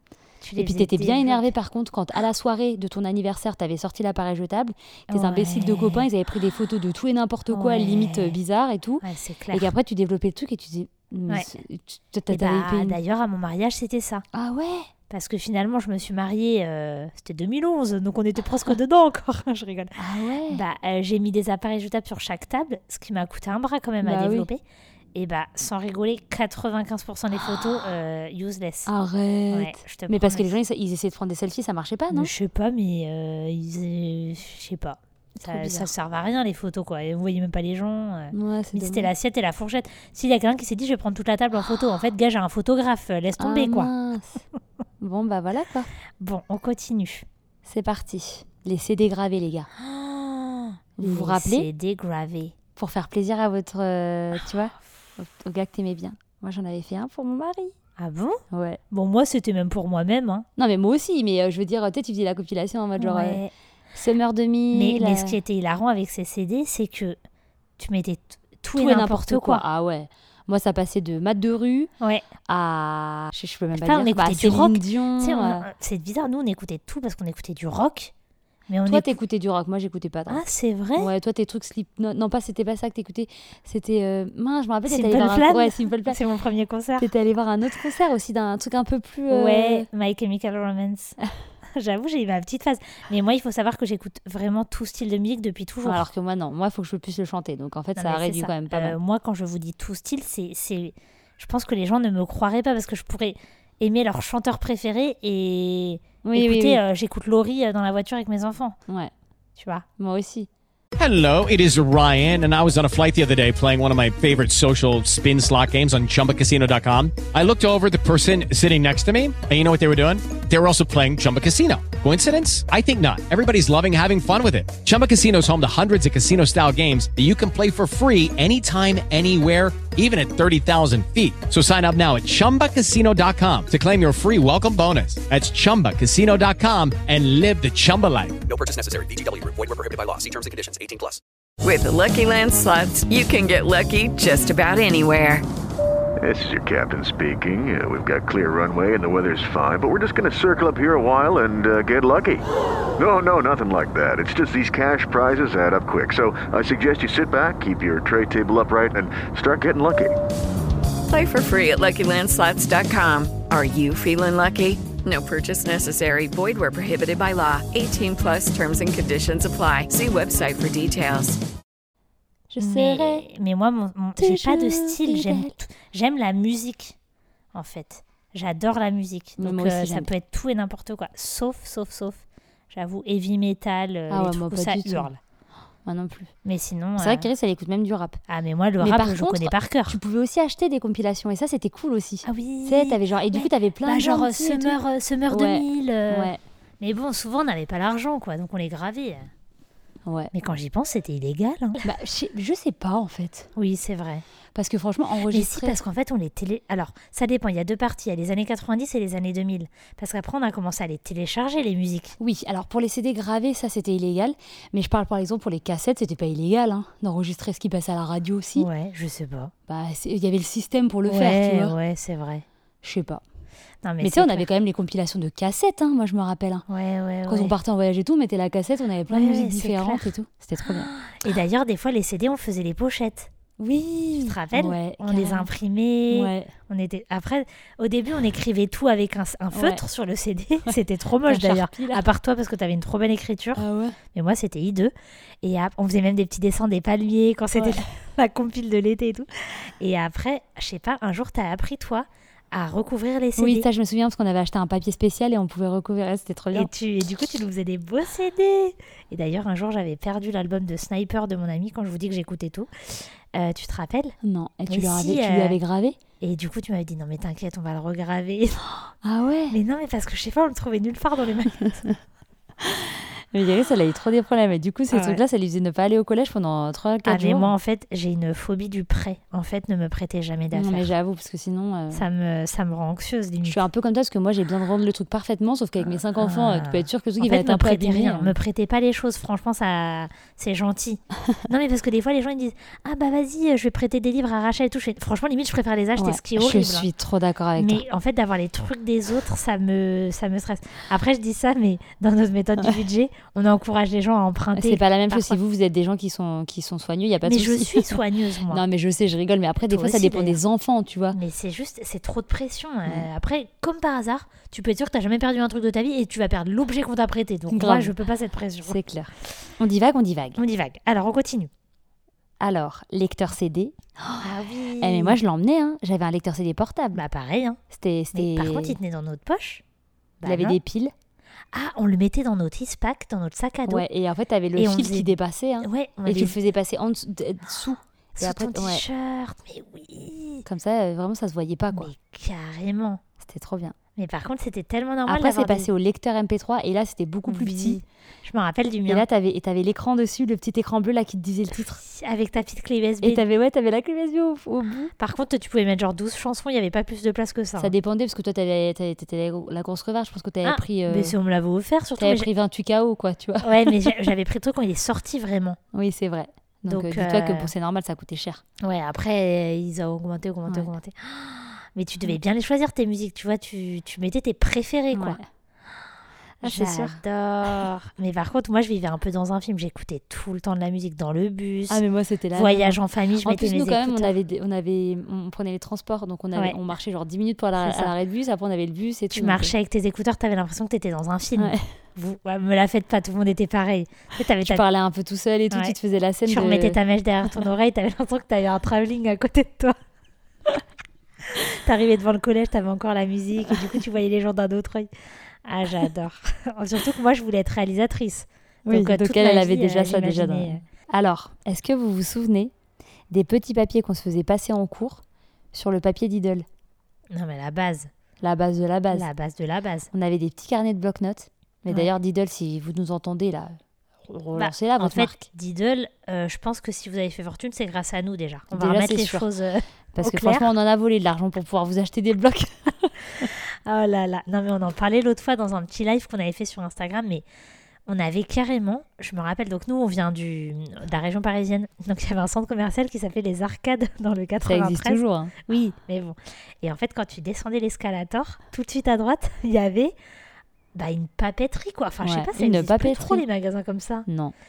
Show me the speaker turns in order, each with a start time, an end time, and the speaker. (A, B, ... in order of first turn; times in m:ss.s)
0:00.4-0:01.5 A
0:00.6-0:13.0 B
0:05.1-0:06.0 A
0:07.5-0:08.4 A
0:09.0-0:09.7 A
0:12.3-0:14.2 A
0:14.3-0:14.9 B
0:15.1-0:20.0 A
0:20.0-0:20.6 B
0:20.5-0:24.6 A
0:24.0-0:24.5 B
0:25.1-0:28.9 A
0:28.9-0:32.3 B
0:29.5-0:30.6 A
0:32.1-0:43.9 A
0:35.4-0:35.9 B
0:38.3-0:39.1 B
0:43.4-0:44.4 B
0:45.0-0:45.9 B
0:46.2-0:47.2 A
0:47.6-0:49.7 B
0:49.8-0:52.5 A
0:51.0-0:51.7 B
0:52.8-0:57.7 B
0:58.0-0:58.4 A
0:58.5-0:58.8 B
0:58.9-1:00.4 A
1:00.6-1:03.4 B
1:03.0-1:03.5 A
1:03.9-1:05.4 B
1:04.7-1:07.2 A
1:07.8-1:09.6 A
1:08.7-1:11.9 B
1:12.5-1:15.7 B
1:13.8-1:18.1 A
1:18.7-1:19.1 A
1:18.8-1:20.4 B
1:20.3-1:21.1 A
1:21.0-1:26.2 B
1:24.9-1:27.1 A
1:27.0-1:29.9 B
1:29.3-1:31.2 A
1:31.8-1:36.0 A
1:35.8-1:39.0 B
1:38.0-1:48.8 A
1:46.2-1:46.8 B
1:49.6-1:49.8 A
1:50.0-1:50.5 B
1:51.0-2:18.4 C
2:18.4-2:21.2 D
2:21.6-2:25.4 E
2:26.2-2:32.4 F
2:33.0-2:40.1 F
2:41.1-2:51.4 E
2:52.5-2:53.3 B
2:52.6-2:56.9 A
2:54.2-2:55.6 B
2:57.5-3:05.2 A
2:59.4-3:00.1 B
3:04.1-3:05.1 B
3:05.8-3:06.3 B
3:06.4-3:07.3 A
3:07.0-3:08.2 B
3:08.3-3:10.0 A
3:08.8-3:16.4 B
3:12.2-3:19.3 A
3:20.0-3:20.3 B
3:20.3-3:21.8 A
3:21.8-3:23.5 B
3:23.6-3:24.2 A
3:24.5-3:25.8 B
3:25.3-3:32.2 A
3:32.2-3:38.7 B
3:38.6-3:39.5 A
3:39.7-3:41.7 B
3:41.0-3:42.4 A
3:42.8-3:43.2 B
3:43.8-3:44.4 A
3:44.0-3:46.6 B
3:46.7-3:47.5 A
3:47.3-3:50.9 B
3:49.1-3:50.1 A
3:50.8-3:53.3 A
3:53.6-3:55.5 B
3:54.2-4:09.3 A
3:56.1-3:56.5 B
3:59.5-3:59.8 B
4:00.7-4:02.0 B
4:03.6-4:04.0 B
4:07.5-4:07.8 B
4:09.8-4:13.7 A
4:13.4-4:16.7 B
4:16.5-4:24.2 A
4:24.2-4:26.0 B
4:24.7-4:25.6 A
4:26.2-4:28.6 A
4:29.0-4:29.6 B
4:29.5-4:31.8 A
4:31.7-4:32.0 B
4:32.6-4:37.5 B
4:34.9-4:35.2 A
4:37.0-4:40.9 A
4:40.5-4:42.0 B
4:41.9-4:43.6 A
4:43.4-4:48.3 B
4:46.2-4:56.9 A
4:56.0-4:57.8 B
4:57.6-5:05.4 A
5:04.6-5:11.2 B
5:07.2-5:08.6 A
5:09.7-5:10.4 A
5:11.1-5:18.8 A
5:17.5-5:17.9 B
5:18.6-5:20.4 B
5:20.4-5:21.5 A
5:22.4-5:24.2 B
5:24.2-5:25.2 A
5:24.8-5:27.0 B
5:26.9-5:27.6 A
5:27.7-5:28.8 B
5:28.1-5:29.6 A
5:30.2-5:30.6 A
5:30.2-5:30.9 B
5:31.5-5:33.8 A
5:33.7-5:38.8 B
5:34.6-5:36.4 A
5:38.2-5:40.4 A
5:40.4-5:41.9 B
5:41.7-5:43.0 A
5:43.2-5:43.7 B
5:44.0-5:45.7 A
5:45.1-5:47.8 B
5:47.3-5:49.0 A
5:48.9-5:51.8 B
5:51.7-5:53.2 A
5:53.0-5:54.9 B
5:55.0-5:57.7 A
5:57.6-6:01.2 B
6:00.4-6:02.3 A
6:02.0-6:04.0 B
6:03.4-6:05.6 A
6:05.7-6:08.4 B
6:06.7-6:07.5 A
6:08.6-6:15.2 A
6:14.9-6:15.2 B
6:16.4-6:17.0 B
6:16.4-6:21.8 A
6:21.7-6:29.5 B
6:22.3-6:24.1 A
6:27.6-6:27.9 A
6:29.1-6:34.6 A
6:31.4-6:31.8 B
6:34.4-6:36.8 B
6:35.5-6:39.8 A
6:41.3-6:44.9 A
6:45.4-6:50.6 A
6:48.7-6:52.5 B
6:53.1-6:55.0 B
6:55.5-6:56.4 B
6:57.1-6:57.9 A
6:58.2-6:59.1 B
6:58.9-6:59.9 A
6:59.9-7:05.3 B
7:01.6-7:01.9 A
7:04.3-7:10.5 A
7:08.5-7:09.3 B
7:09.9-7:13.3 B
7:13.2-7:17.2 A
7:17.9-7:29.9 A
7:24.4-7:25.3 B
7:30.7-7:34.0 A
7:32.0-7:33.2 B
7:34.1-7:34.3 B